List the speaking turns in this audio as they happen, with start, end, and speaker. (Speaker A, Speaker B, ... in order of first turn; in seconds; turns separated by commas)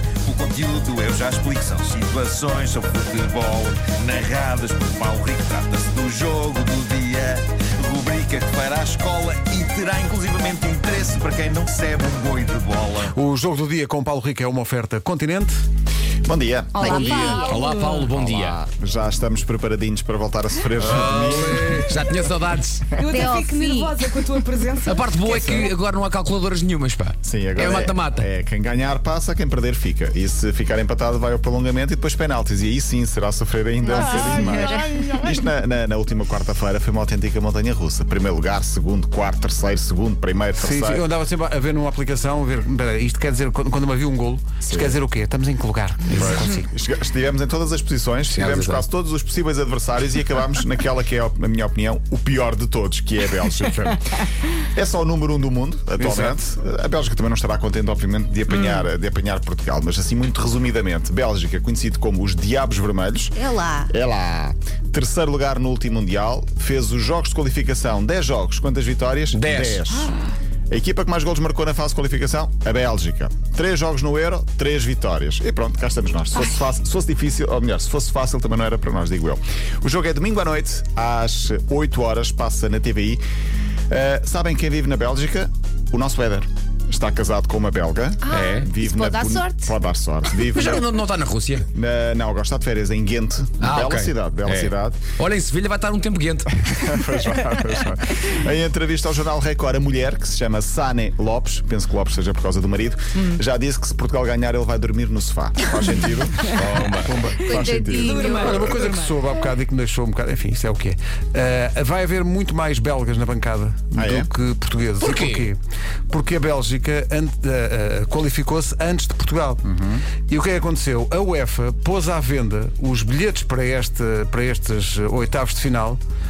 Speaker A: 0.2-13.1, Speaker B: 13.1-15.6, Speaker C: 16.2-17.0, Speaker D: 16.8-18.1, Speaker E: 16.8-17.7, Speaker F: 16.8-18.6, Speaker C: 18.1-22.0, Speaker F: 20.8-22.9, Speaker D: 23.0-25.7, Speaker E: 23.0-24.3, Speaker F: 24.9-28.3, Speaker C: 27.2-41.0, Speaker E: 33.9-35.2, Speaker D: 34.3-35.2, Speaker B: 40.6-46.7, Speaker C: 44.6-45.0, Speaker C: 46.1-63.4, Speaker F: 48.3-48.9, Speaker B: 56.0-56.4, Speaker E: 63.4-63.9, Speaker C: 63.9-70.1, Speaker F: 69.3-70.0, Speaker C: 70.7-83.2, Speaker C: 83.9-90.9, Speaker E: 88.2-89.8, Speaker F: 88.3-88.7, Speaker F: 90.4-91.7, Speaker C: 91.7-95.0, Speaker F: 93.6-96.5, Speaker C: 96.6-106.6, Speaker F: 106.5-107.1, Speaker B: 107.0-115.6, Speaker C: 107.3-108.2, Speaker E: 107.4-108.7, Speaker D: 108.0-109.2, Speaker C: 113.9-114.3, Speaker F: 115.0-115.5, Speaker B: 116.1-119.6, Speaker C: 119.6-120.0, Speaker B: 120.3-126.0